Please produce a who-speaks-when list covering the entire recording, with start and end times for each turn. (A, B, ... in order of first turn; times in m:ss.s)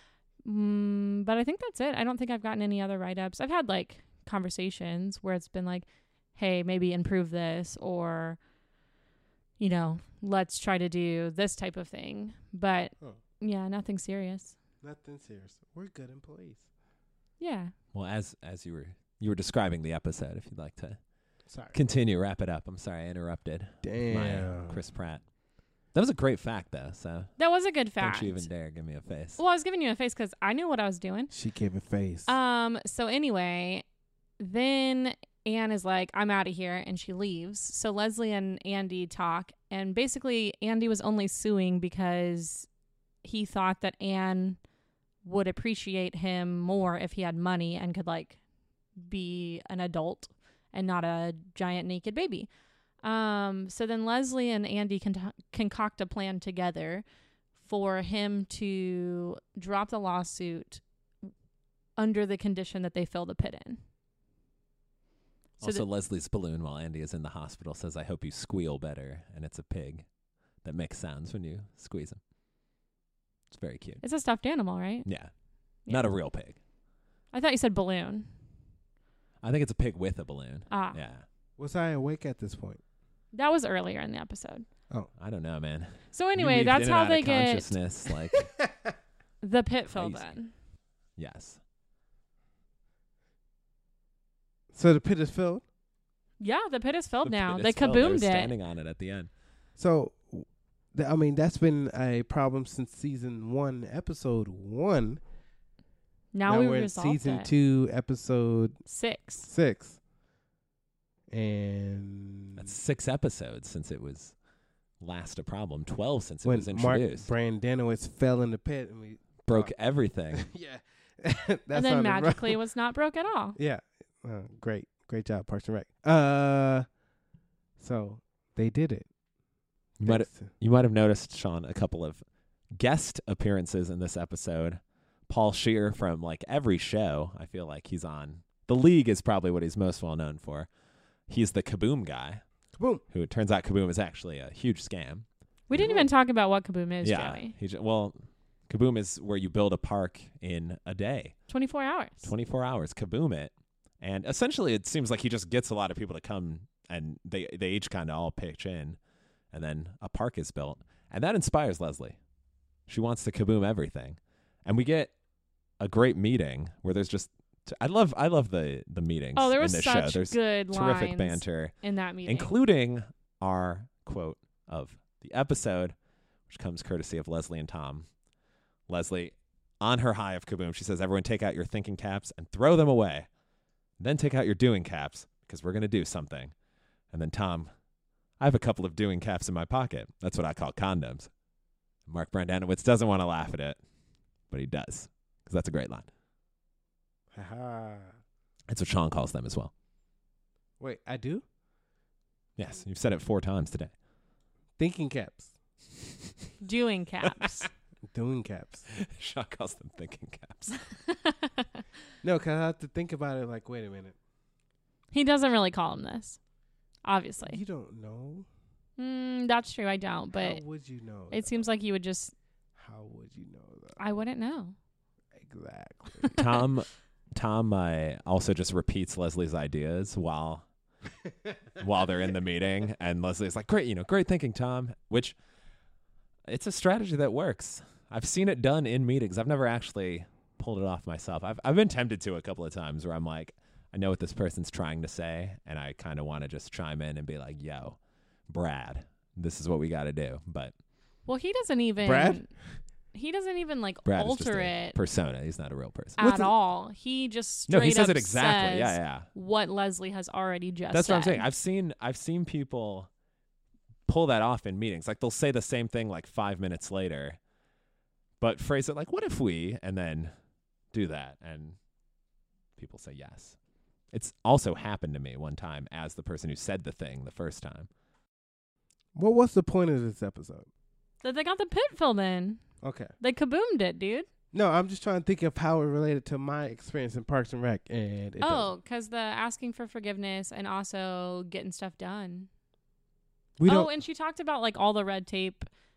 0:00.4-0:08.4 A
0:09.6-0:14.6 A
0:14.8-0:16.6 B
0:17.4-0:17.7 A
0:17.9-0:21.0 C
0:21.5-0:21.7 B
0:21.7-0:25.2 C
0:23.8-0:24.8 B
0:25.9-0:27.3 C
0:27.4-0:28.5 A
0:28.0-0:29.4 C
0:29.4-0:31.3 A
0:31.3-0:32.3 B
0:32.3-0:33.8 A
0:34.4-0:42.7 A
0:43.2-0:44.6 A
0:45.2-0:48.4 A
0:49.0-0:52.5 A
0:53.0-0:57.0 A
0:57.6-1:00.8 A
1:02.0-1:03.8 A
1:05.6-1:05.8 A
1:05.6-1:10.0 C
1:10.6-1:12.2 C
1:13.5-1:14.0 C
1:14.0-1:15.1 A
1:15.0-1:15.3 C
1:15.9-1:16.6 C
1:17.3-1:18.3 A
1:19.4-1:21.2 C
1:20.7-1:21.0 A
1:21.6-1:22.8 B
1:23.3-1:24.7 A
1:25.2-1:28.5 C
1:26.1-1:27.7 A
1:28.3-1:28.9 B
1:29.4-1:30.5 A
1:29.9-1:30.3 C
1:31.2-1:31.6 C
1:34.7-1:35.6 B
1:36.4-1:38.5 A
1:37.2-1:39.3 C
1:39.8-1:45.2 B
1:46.3-1:47.5 A
1:46.5-1:48.8 B
1:48.8-1:49.5 A
1:49.4-1:50.0 B
1:51.3-1:52.7 B
1:52.6-1:54.3 C
1:55.0-1:57.3 C
1:56.4-1:59.7 B
1:59.4-2:00.4 C
2:00.3-2:02.6 B
2:01.7-2:03.6 A
2:03.6-2:06.8 B
2:07.8-2:09.1 B
2:10.0-2:12.2 C
2:10.0-2:10.5 B
2:12.7-2:20.7 C
2:21.3-2:22.4 C
2:22.8-2:23.0 B
2:23.1-2:26.0 C
2:25.7-2:27.5 A
2:25.8-2:26.1 B
2:27.0-2:31.4 C
2:31.5-2:32.3 A
2:32.2-2:39.0 C
2:39.5-2:42.2 C
2:42.9-2:45.1 C
2:45.8-2:51.7 C
2:49.4-2:52.5 A
2:52.2-2:55.9 C
2:56.5-2:58.1 C
2:58.9-3:03.3 C
3:04.0-3:06.5 C
3:07.1-3:07.7 C
3:08.4-3:11.3 C
3:12.1-3:13.8 C
3:14.5-3:16.1 C
3:17.3-3:18.2 B
3:18.7-3:19.7 C
3:20.8-3:21.4 B
3:22.6-3:23.9 C
3:24.8-3:25.5 B
3:26.6-3:27.7 A
3:27.2-3:27.7 C
3:28.1-3:28.9 B
3:28.9-3:30.8 C
3:31.1-3:31.8 A
3:32.2-3:34.2 B
3:35.1-3:36.4 A
3:37.0-3:37.6 A
3:37.4-3:38.5 B
3:39.0-3:40.6 A
3:40.3-3:41.7 B
3:41.3-3:42.3 A
3:42.8-3:44.0 B
3:44.0-3:44.7 A
3:45.4-3:46.3 B
3:46.3-3:50.6 C
3:51.8-3:55.4 C
3:56.5-4:08.0 C
4:08.5-4:10.7 C
4:11.2-4:12.5 A
4:12.0-4:12.4 B
4:13.1-4:15.0 A
4:14.0-4:16.2 C
4:16.2-4:21.4 A
4:16.2-4:16.5 B
4:17.7-4:19.3 C
4:20.9-4:23.1 C
4:24.1-4:27.4 C
4:28.4-4:30.3 C
4:30.9-4:31.8 C
4:32.8-4:33.6 C
4:34.1-4:37.9 C
4:39.2-4:40.7 B
4:41.2-4:42.6 A
4:42.8-4:43.1 B
4:43.2-4:44.3 A
4:44.5-4:48.7 B
4:48.4-4:52.5 A
4:53.6-4:53.9 B
4:53.6-4:55.7 A